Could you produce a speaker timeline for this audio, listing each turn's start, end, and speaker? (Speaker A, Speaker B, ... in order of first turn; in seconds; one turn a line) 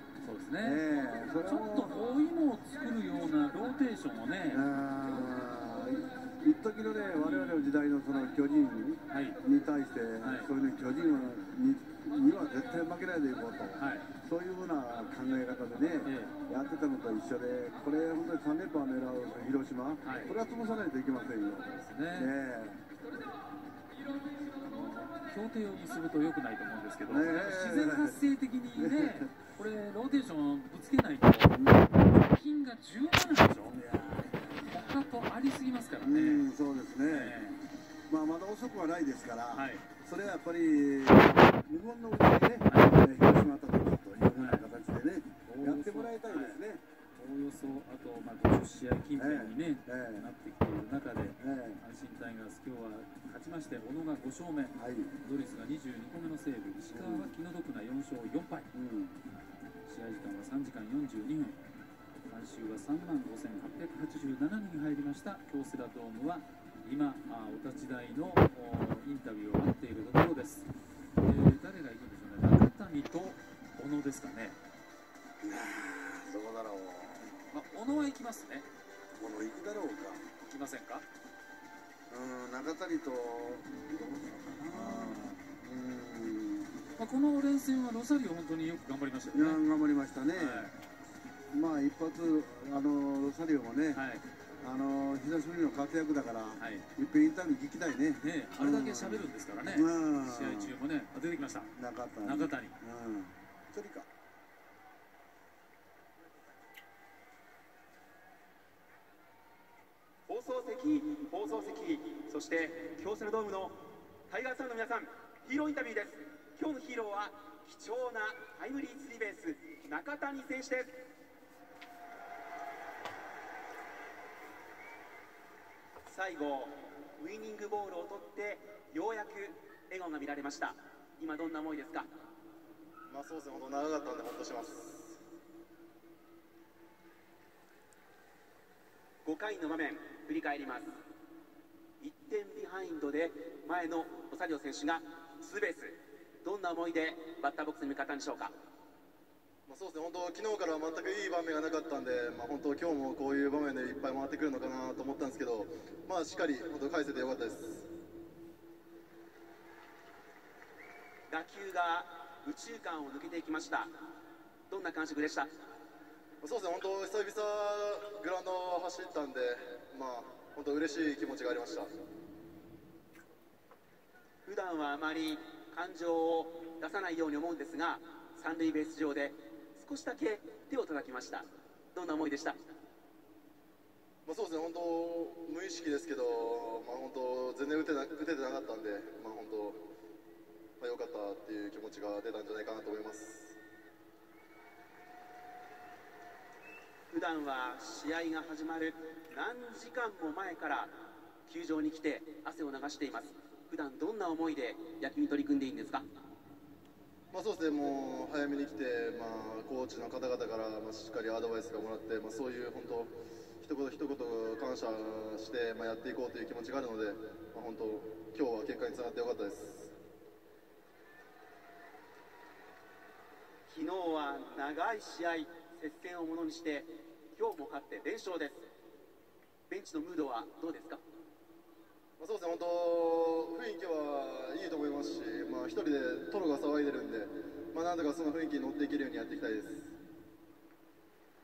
Speaker A: 0.2-0.8
Speaker B: 0.6-2.0
Speaker A: 1.4-4.7
Speaker B: 4.5-22.8
Speaker A: 7.2-7.7
Speaker A: 9.1-9.4
Speaker A: 10.2-10.5
Speaker A: 13.8-14.1
Speaker A: 16.1-16.3
Speaker A: 20.0-20.4
Speaker A: 21.7-22.3
Speaker A: 24.6-33.8
Speaker B: 27.1-28.2
Speaker B: 28.8-29.3
Speaker B: 31.5-31.9
Speaker B: 33.7-34.8
Speaker A: 34.6-36.5
Speaker B: 36.0-37.4
Speaker A: 37.1-37.6
Speaker B: 38.1-46.8
Speaker A: 39.5-39.9
Speaker A: 42.7-43.0
Speaker A: 44.4-44.6
Speaker A: 45.5-46.6
Speaker A: 47.2-58.7
Speaker B: 49.2-50.3
Speaker B: 51.4-51.8
Speaker B: 54.8-55.1
Speaker B: 56.9-57.3
Speaker B: 58.7-59.2
Speaker A: 59.9-61.6
Speaker A: 62.3-70.7
Speaker A: 71.2-74.6
Speaker B: 75.4-77.3
Speaker A: 77.2-78.7
Speaker B: 79.2-80.2
Speaker A: 80.5-81.0
Speaker B: 82.1-86.7
Speaker A: 84.7-85.4
Speaker A: 87.0-89.6
Speaker B: 89.3-90.7
Speaker A: 90.3-90.7
Speaker B: 91.5-94.0
Speaker A: 93.9-94.3
Speaker B: 94.6-100.7
Speaker A: 96.6-96.9
Speaker A: 98.2-101.7
Speaker B: 101.7-104.1
Speaker A: 102.2-102.8
Speaker C: 110.3-120.9
Speaker C: 126.1-132.1
Speaker D: 133.1-135.2
Speaker C: 139.2-140.9
Speaker C: 142.0-148.5
Speaker D: 149.7-157.9
Speaker C: 161.3-163.9
Speaker C: 164.7-165.5
Speaker D: 166.4-171.9
Speaker C: 174.4-182.6
Speaker D: 184.2-189.8
Speaker D: 190.8-193.6
Speaker C: 197.1-200.9
Speaker C: 201.5-206.1
Speaker D: 207.3-219.9
Speaker C: 223.7-228.6
Speaker C: 229.7-231.0
Speaker D: 232.2-239.9